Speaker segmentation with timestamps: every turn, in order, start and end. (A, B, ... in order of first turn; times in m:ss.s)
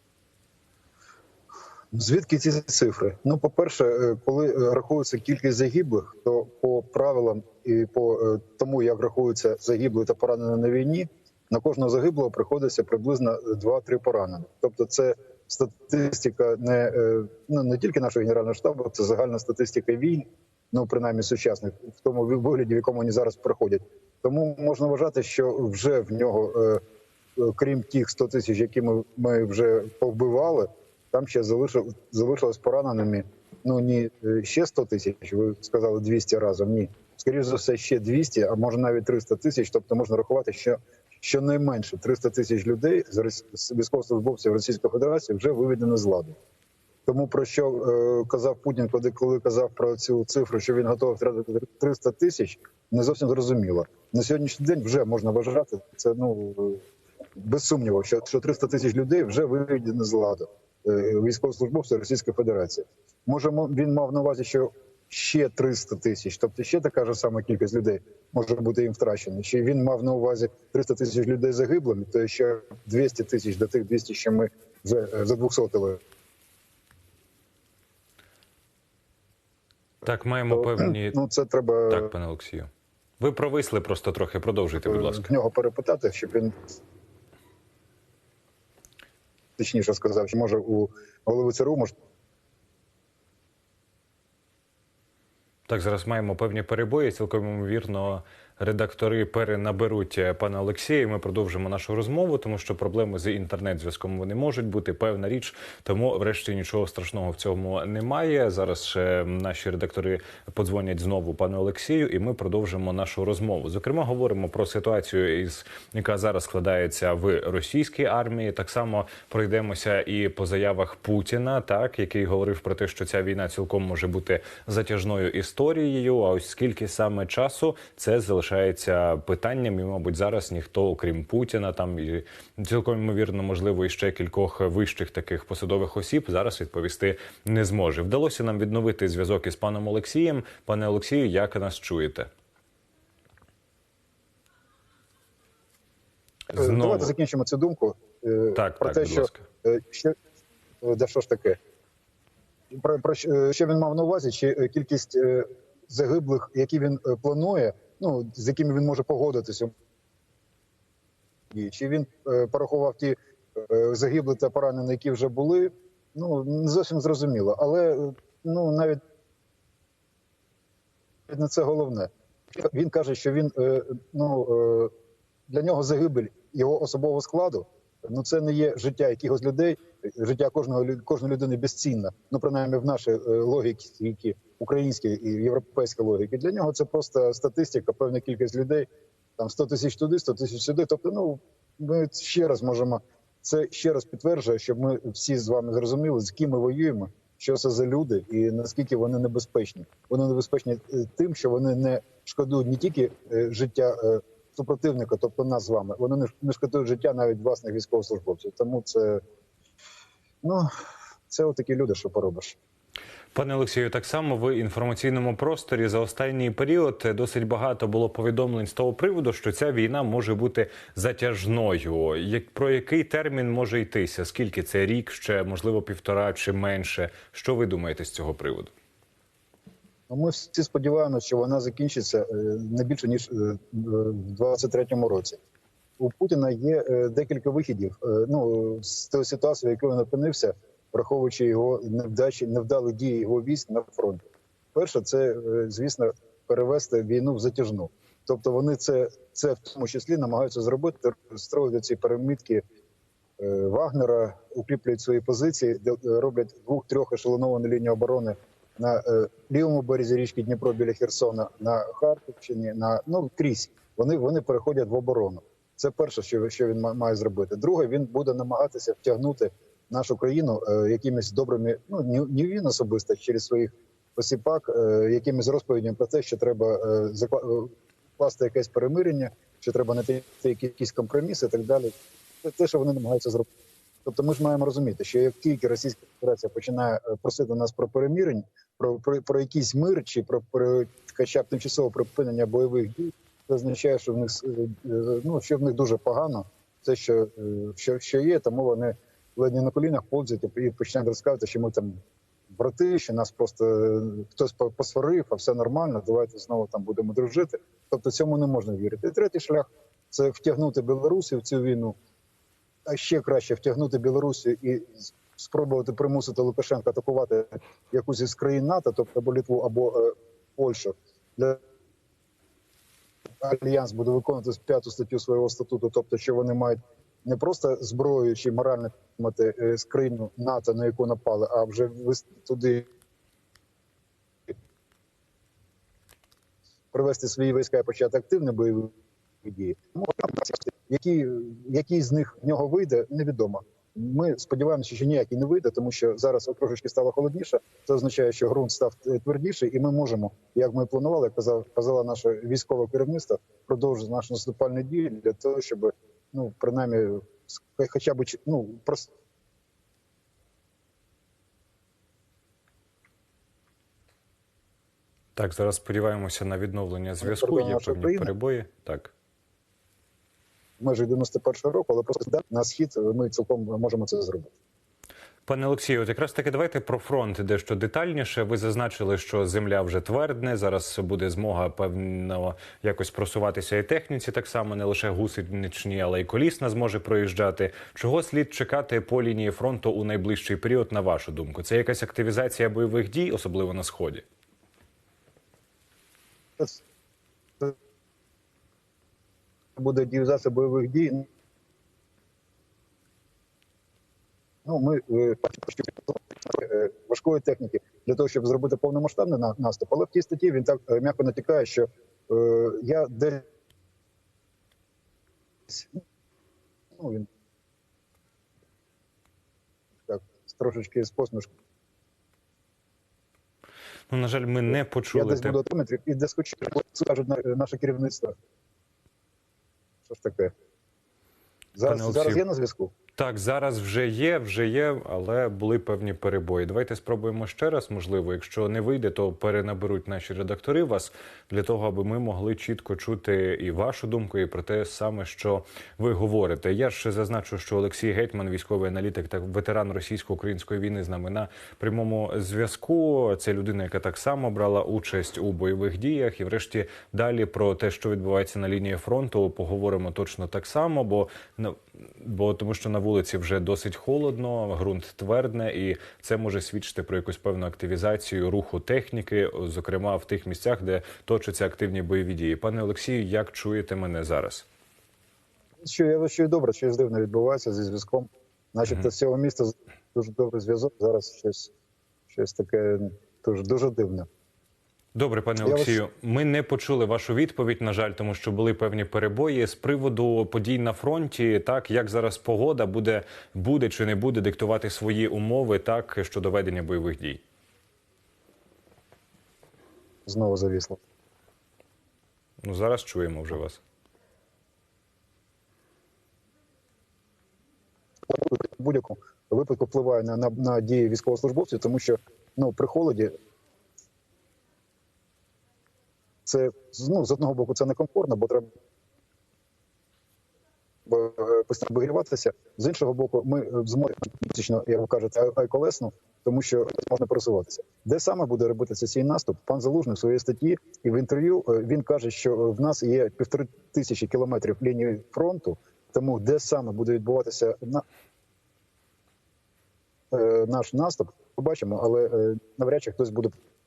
0:01.9-0:26.8 A
0:27.4-0:46.4 A
0:47.0-0:56.8 A
0:57.4-1:16.0 A
1:20.0-1:21.2 B
1:20.5-1:22.1 A
1:21.9-1:22.7 B
1:23.2-1:25.3 B
1:24.8-1:26.5 A
1:29.6-1:31.9 A
1:35.7-2:22.3 B
2:26.5-2:27.1 B
2:26.5-2:30.1 A
2:28.5-2:29.4 B
2:30.8-2:31.6 A
2:32.7-2:39.7 A
2:41.5-2:49.0 A
2:51.3-2:54.9 A
2:55.5-3:29.2 A
3:30.4-3:30.7 A
3:31.3-3:32.6 A
3:33.3-3:48.7 B
3:50.1-3:55.4 A
3:56.0-4:04.2 A
4:04.7-4:12.6 A
4:13.4-4:41.9 A
4:42.4-4:43.5 A
4:44.0-5:02.0 A
5:02.6-5:11.9 A
5:12.8-5:21.6 A
5:23.4-5:32.9 A
5:36.9-5:59.1 A
6:05.4-6:09.1 B
6:07.2-6:08.3 A
6:10.8-6:14.5 A
6:15.5-6:34.2 B
6:39.8-6:41.3 A
6:44.6-6:53.4 A
6:55.7-6:56.0 A
6:57.0-6:57.3 A
7:00.0-7:01.5 A
7:04.1-7:05.6 B
7:04.7-7:08.3 A
7:10.0-7:10.5 A
7:11.7-7:12.9 A
7:11.8-7:12.4 B
7:13.2-7:54.6 B
7:55.8-8:01.7 A
8:02.3-8:04.3 A
8:05.1-8:17.4 B
8:05.6-8:06.0 A
8:20.2-8:21.0 A
8:22.6-8:23.8 B
8:28.3-8:33.3 A
8:36.4-8:38.7 A
8:41.0-8:58.0 A
9:00.3-9:03.6 A